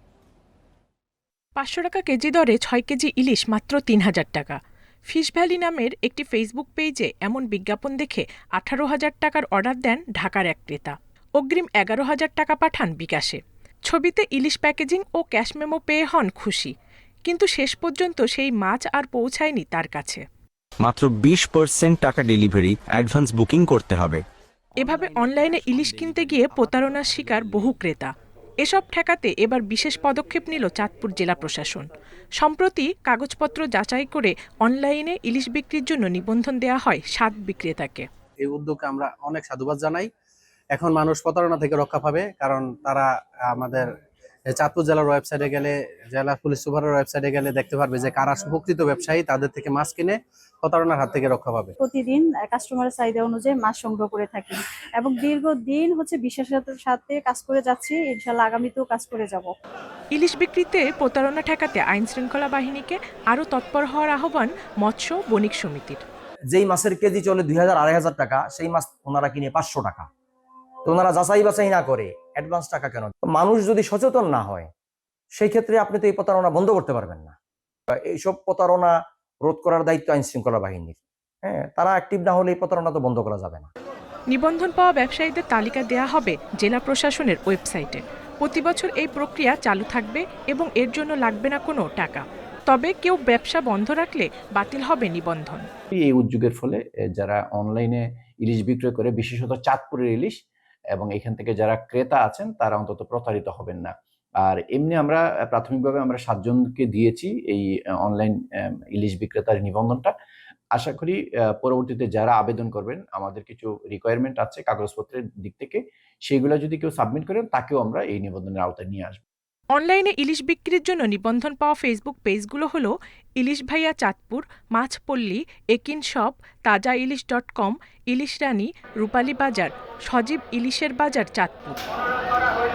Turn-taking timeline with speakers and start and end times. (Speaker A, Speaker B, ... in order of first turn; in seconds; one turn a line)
Speaker A: 1.6-16.7
Speaker A: 17.2-20.2
Speaker B: 20.8-24.2
Speaker A: 24.8-31.9
Speaker A: 32.4-38.0
Speaker C: 38.4-40.1
Speaker C: 40.7-43.9
Speaker C: 44.5-51.7
Speaker D: 51.8-59.5
Speaker A: 60.1-66.0
Speaker E: 66.5-70.1
Speaker E: 70.8-74.7
Speaker E: 75.3-77.4
Speaker E: 77.9-78.9
Speaker E: 79.4-83.7
Speaker A: 84.3-95.7
Speaker F: 95.9-100.4
Speaker F: 100.9-108.4
Speaker F: 108.9-110.1
Speaker F: 110.7-119.2
Speaker A: 119.7-131.8